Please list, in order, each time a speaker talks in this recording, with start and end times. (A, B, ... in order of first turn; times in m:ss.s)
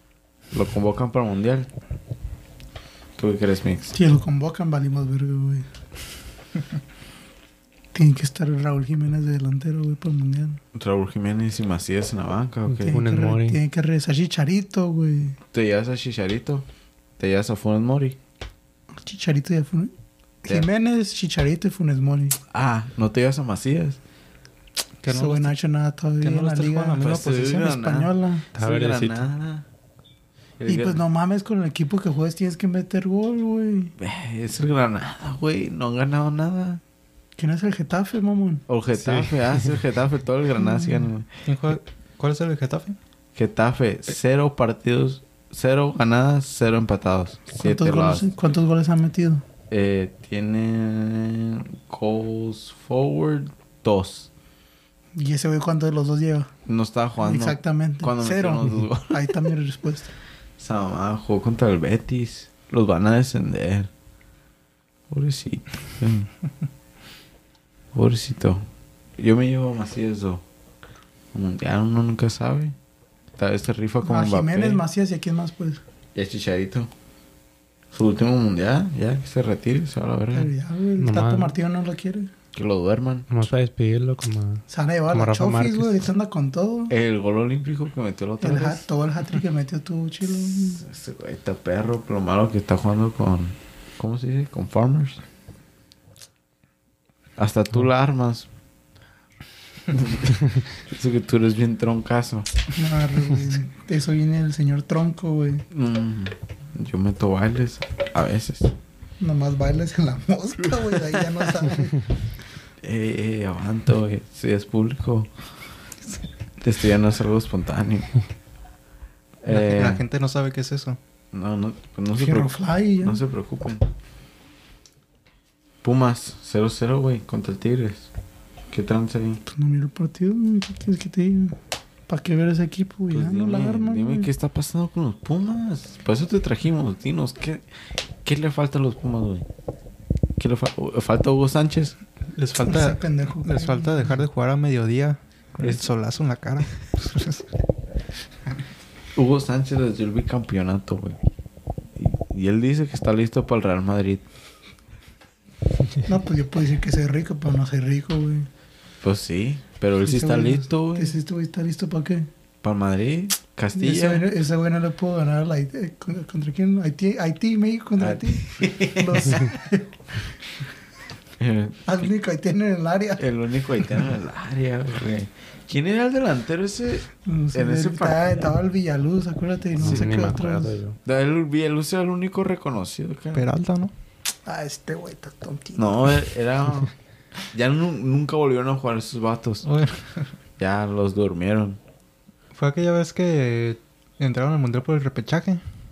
0:00.5-0:01.7 A
0:03.2-0:04.0 A
0:03.9-0:05.7 B
0:07.9-0:10.6 B
0:10.7-0:13.0 A
0:12.7-0:13.6 C
0:12.9-0:15.4 B
0:15.5-0:16.6 A
0:17.2-0:18.2 A
0:19.0-0:19.9 B
0:20.4-0:22.4 B
0:22.5-0:24.0 A
0:25.0-0:25.6 D
0:25.1-0:28.4 B
0:26.2-0:27.8 D
0:27.0-0:29.7 A
0:28.6-0:29.2 C
0:30.6-0:31.0 A
0:30.7-0:33.9 B
0:34.0-0:36.8 A
0:37.4-0:38.6 B
0:38.7-0:41.3 A
0:39.0-0:39.3 D
0:40.6-0:41.1 B
0:41.4-0:43.0 D
0:43.4-0:48.3 A
0:47.5-0:49.4 B
0:49.7-0:54.3 A
0:55.2-0:56.5 B
0:56.7-0:59.5 A
0:57.2-1:00.1 B
1:00.6-1:03.9 A
1:05.1-1:06.3 A
1:07.9-1:08.6 A
1:09.2-1:10.4 A
1:11.3-1:12.8 A
1:13.4-1:14.8 A
1:14.0-1:15.8 B
1:16.2-1:16.9 A
1:17.9-1:20.5 A
1:20.3-1:22.3 B
1:21.0-1:21.6 C
1:22.5-1:23.5 A
1:23.3-1:26.0 C
1:24.7-1:26.9 B
1:26.9-1:28.9 A
1:28.4-1:30.8 B
1:30.4-1:35.2 A
1:37.4-1:38.5 A
1:39.9-1:42.5 A
1:42.7-1:45.6 B
1:45.7-1:48.7 A
1:49.2-1:52.1 B
1:50.7-1:51.6 A
1:52.8-1:55.3 A
1:56.6-1:58.1 A
1:59.4-2:00.0 A
1:59.5-2:01.0 D
2:01.3-2:03.9 A
2:02.2-2:03.2 B
2:05.8-2:08.1 A
2:08.7-2:09.4 A
2:09.5-2:11.6 B
2:12.1-2:14.3 B
2:13.1-2:17.6 A
2:18.2-2:19.5 A
2:20.4-2:22.0 A
2:22.4-2:27.5 D
2:22.6-2:24.2 B
2:29.2-2:31.2 A
2:32.0-2:34.2 A
2:36.0-2:38.5 B
2:39.0-2:41.2 A
2:40.0-2:42.3 B
2:42.6-2:44.3 A
2:43.8-2:49.9 B
2:48.0-2:49.5 A
2:51.4-2:52.1 A
2:51.9-2:53.3 B
2:53.2-2:58.4 A
2:57.2-3:00.8 B
2:59.8-3:01.0 C
2:59.8-3:00.1 A
3:01.0-3:03.5 A
3:03.3-3:03.9 D
3:04.4-3:05.9 B
3:05.8-3:06.9 A
3:07.5-3:09.6 A
3:09.6-3:10.3 D
3:10.6-3:11.8 A
3:12.5-3:15.6 D